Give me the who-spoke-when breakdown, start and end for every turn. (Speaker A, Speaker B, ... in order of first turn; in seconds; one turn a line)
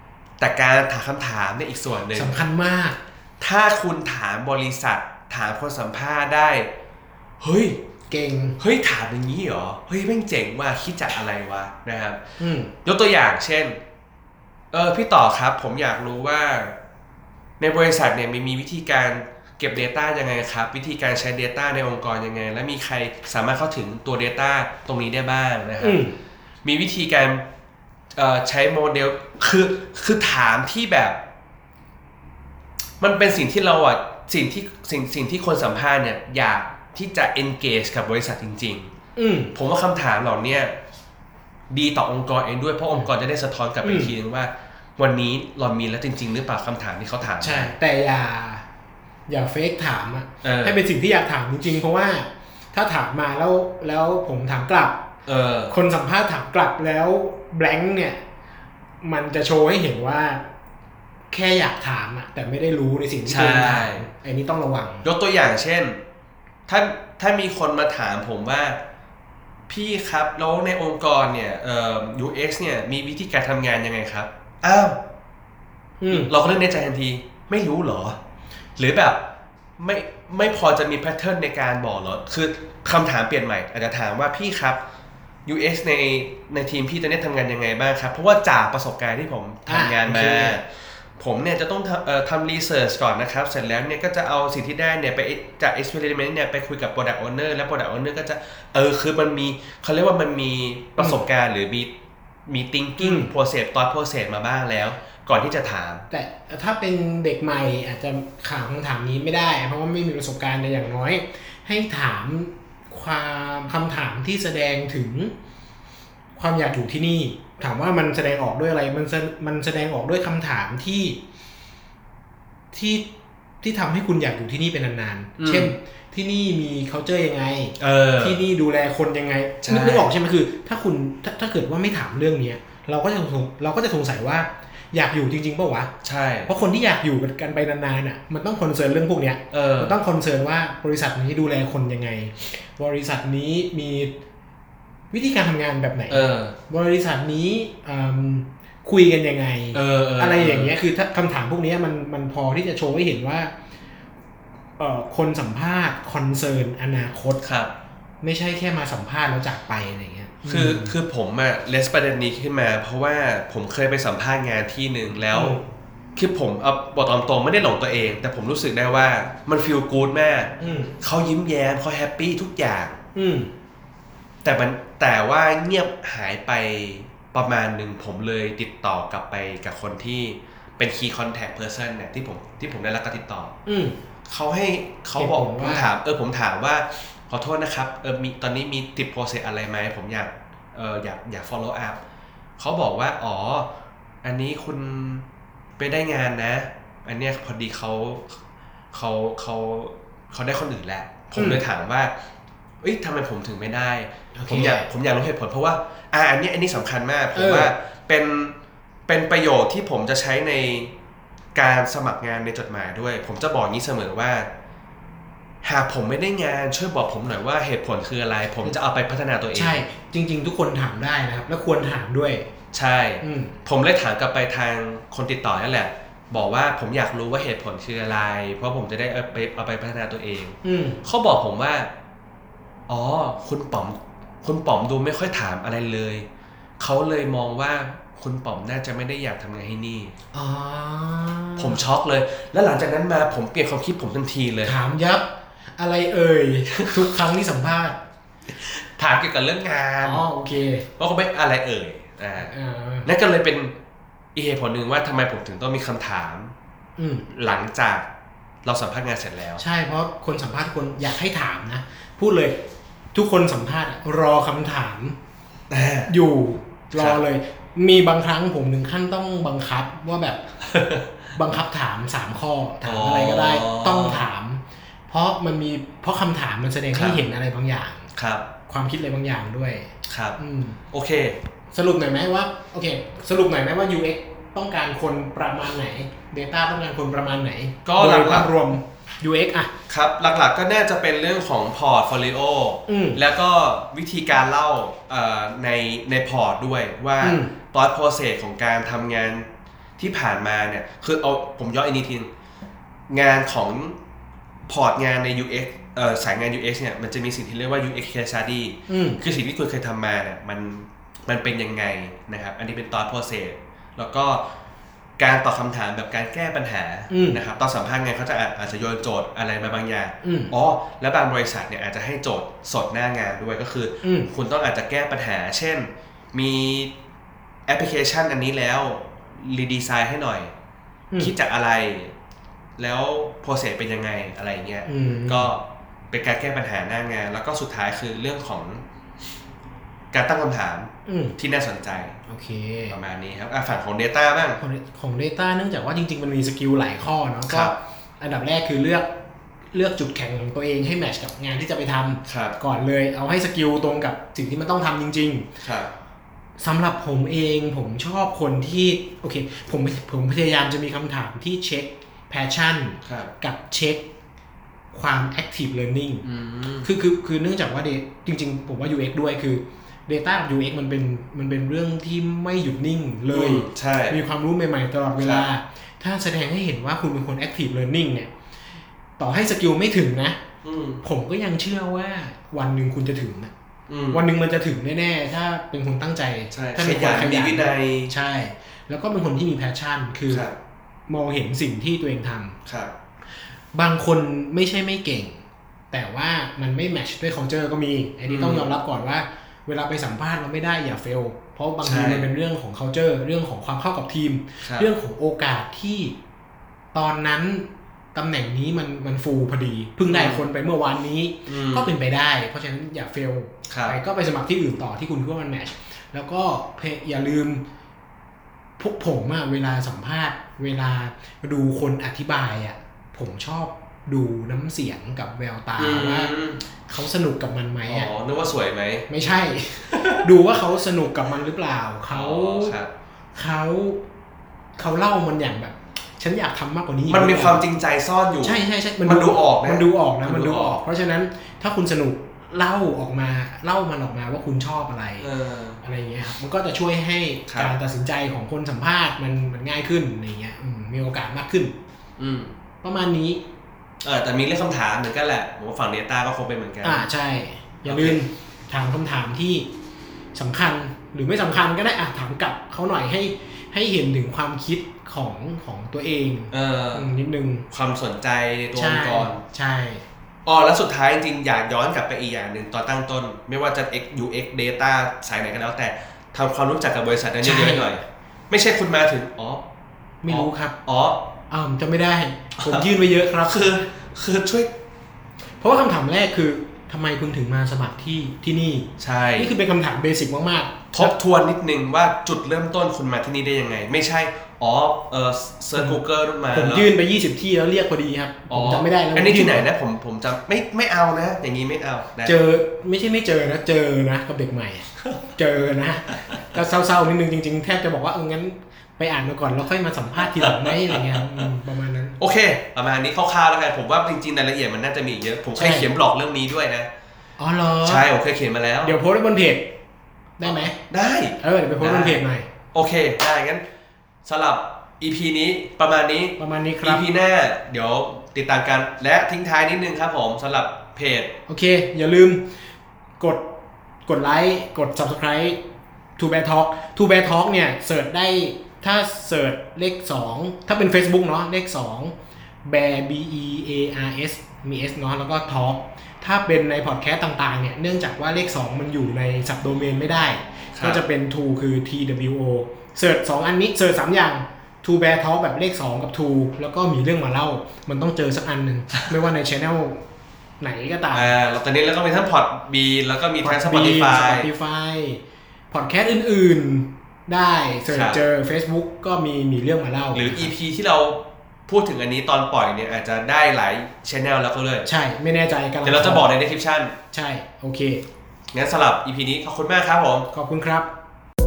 Speaker A: 0.4-2.4
Speaker B: 2.1-3.0
Speaker A: 3.4-6.7
Speaker A: 7.4-7.8
Speaker B: 8.1-8.6
Speaker A: 8.6-12.2
Speaker B: 12.4-12.7
Speaker A: 12.8-13.8
Speaker A: 14.7-16.8
Speaker A: 17.6-26.0
Speaker B: 25.8-26.2
Speaker A: 26.6-27.4
Speaker A: 28.1-31.2
Speaker A: 33.0-38.9
Speaker B: 39.2-39.5
Speaker A: 39.5-40.7
Speaker A: 41.7-47.7
Speaker B: 43.8-44.1
Speaker B: 47.4-48.6
Speaker B: 49.3-55.0
Speaker A: 50.4-50.8
Speaker A: 55.3-55.7
Speaker B: 55.7-58.2
Speaker B: 59.0-60.4
Speaker B: 61.3-65.1
Speaker A: 63.3-64.1
Speaker A: 65.0-66.0
Speaker A: 66.7-68.8
Speaker A: 69.7-75.0
Speaker B: 76.0-76.3
Speaker A: 76.1-78.2
Speaker A: 78.8-79.2
Speaker A: 79.8-84.8
Speaker A: 85.5-101.9
Speaker B: 89.7-90.6
Speaker A: 102.5-106.1
Speaker B: 103.0-103.3
Speaker B: 106.1-115.3
Speaker B: 116.4-121.2
Speaker B: 122.7-123.1
Speaker B: 123.6-135.9
Speaker A: 125.4-125.7
Speaker A: 127.8-128.4
Speaker A: 129.6-130.1
Speaker A: 136.0-136.5
Speaker B: 136.5-144.2
Speaker A: 139.5-140.0
Speaker B: 145.1-153.5
Speaker A: 146.1-146.6
Speaker A: 149.7-150.8
Speaker B: 154.8-157.4
Speaker A: 157.4-157.7
Speaker B: 158.2-160.9
Speaker A: 160.5-165.6
Speaker B: 165.3-165.6
Speaker A: 166.2-173.0
Speaker B: 170.6-170.9
Speaker B: 173.2-173.5
Speaker A: 174.4-183.5
Speaker B: 183.7-184.0
Speaker A: 184.3-192.0
Speaker B: 185.2-185.9
Speaker A: 192.6-193.7
Speaker A: 194.2-195.3
Speaker A: 195.8-198.4
Speaker A: 198.9-202.1
Speaker B: 201.4-201.6
Speaker A: 202.8-208.6
Speaker B: 204.3-204.9
Speaker B: 207.3-207.7
Speaker A: 209.1-210.9
Speaker A: 211.6-214.5
Speaker A: 215.6-219.8
Speaker B: 219.6-222.5
Speaker A: 222.7-231.9
Speaker B: 223.2-223.6
Speaker B: 230.6-231.0
Speaker A: 232.9-236.3
Speaker A: 236.8-240.1
Speaker B: 240.3-241.8
Speaker A: 241.6-244.7
Speaker B: 244.6-248.0
Speaker A: 248.5-250.3
Speaker B: 250.0-250.9
Speaker A: 251.0-252.5
Speaker B: 252.5-253.1
Speaker A: 253.1-253.7
Speaker A: 254.3-256.5
Speaker B: 257.0-257.3
Speaker A: 257.3-258.1
Speaker A: 258.6-259.6
Speaker B: 259.6-262.6
Speaker B: 263.1-265.2
Speaker A: 265.7-266.1
Speaker B: 266.1-270.4
Speaker A: 270.6-271.3
Speaker B: 271.4-278.1
Speaker A: 272.9-274.3
Speaker A: 276.9-277.2
Speaker A: 278.1-278.5
Speaker B: 278.7-280.8
Speaker A: 280.1-280.4
Speaker A: 280.9-281.4
Speaker B: 281.7-289.7
Speaker A: 287.9-288.5
Speaker A: 289.9-302.3
Speaker B: 292.9-293.2
Speaker B: 297.2-297.5
Speaker A: 303.1-304.0
Speaker A: 304.7-314.4
Speaker B: 308.9-309.2
Speaker A: 315.2-326.9
Speaker B: 317.1-317.4
Speaker B: 320.2-320.5
Speaker B: 324.0-324.3
Speaker A: 327.7-330.5
Speaker A: 331.2-332.1
Speaker A: 332.8-338.8
Speaker B: 334.9-335.5
Speaker A: 340.1-342.2
Speaker B: 341.1-341.4
Speaker B: 342.3-343.0
Speaker A: 342.9-344.6
Speaker B: 344.6-349.1
Speaker A: 347.5-347.8
Speaker B: 349.7-355.5
Speaker A: 352.3-352.6
Speaker A: 355.6-355.9
Speaker B: 356.6-364.1
Speaker A: 363.1-363.3
Speaker B: 364.9-366.3
Speaker A: 366.2-366.9
Speaker B: 366.8-378.3
Speaker A: 373.3-374.2
Speaker A: 375.2-375.5
Speaker B: 379.2-380.4
Speaker A: 380.6-381.0
Speaker B: 381.0-383.5
Speaker A: 383.9-384.2
Speaker B: 384.1-390.5
Speaker A: 386.5-388.1
Speaker A: 390.3-390.6
Speaker B: 391.1-392.6
Speaker A: 392.7-392.9
Speaker B: 393.7-406.1
Speaker A: 398.3-398.7
Speaker A: 401.8-402.3
Speaker A: 404.6-404.9
Speaker B: 406.9-417.6
Speaker A: 410.1-410.4
Speaker A: 411.5-411.9
Speaker A: 413.7-414.0
Speaker B: 418.8-426.3
Speaker A: 425.8-426.6
Speaker B: 426.9-428.1
Speaker A: 427.9-429.1
Speaker B: 429.1-432.8
Speaker A: 429.9-430.3
Speaker A: 432.1-432.9
Speaker B: 433.4-434.0
Speaker B: 434.8-437.6
Speaker A: 437.1-440.8
Speaker B: 438.4-445.3
Speaker A: 445.2-445.8
Speaker B: 445.8-451.8
Speaker A: 447.5-447.7
Speaker A: 452.2-452.6
Speaker B: 452.8-453.4
Speaker A: 454.0-457.0
Speaker B: 456.8-459.7
Speaker A: 457.9-458.2
Speaker B: 460.3-467.7
Speaker A: 466.5-467.1
Speaker A: 467.7-469.4
Speaker B: 468.8-470.1
Speaker A: 470.4-479.6
Speaker B: 477.4-477.9
Speaker B: 480.2-480.8
Speaker A: 480.3-481.3
Speaker B: 481.5-483.8
Speaker A: 482.6-482.9
Speaker A: 483.4-484.7
Speaker B: 485.6-491.1
Speaker A: 489.0-489.5
Speaker A: 490.9-496.9
Speaker B: 495.8-496.0
Speaker B: 496.5-499.7
Speaker A: 498.5-502.4
Speaker B: 502.2-512.2
Speaker A: 510.2-511.5
Speaker A: 512.2-516.9
Speaker B: 515.6-515.9
Speaker B: 517.4-518.1
Speaker A: 517.8-519.0
Speaker B: 518.8-519.7
Speaker B: 520.4-520.8
Speaker A: 520.4-522.2
Speaker B: 521.4-522.5
Speaker A: 522.7-523.6
Speaker A: 524.2-531.3
Speaker B: 526.4-527.0
Speaker B: 531.5-532.5
Speaker B: 533.2-533.5
Speaker B: 534.1-535.6
Speaker B: 536.2-560.0
Speaker A: 550.7-551.0
Speaker B: 560.6-561.4
Speaker A: 561.1-564.5
Speaker B: 563.4-570.5
Speaker A: 567.9-568.2
Speaker A: 570.1-574.9
Speaker B: 574.9-576.3
Speaker A: 575.8-576.9
Speaker B: 577.1-578.0
Speaker A: 578.5-580.3
Speaker B: 580.3-580.9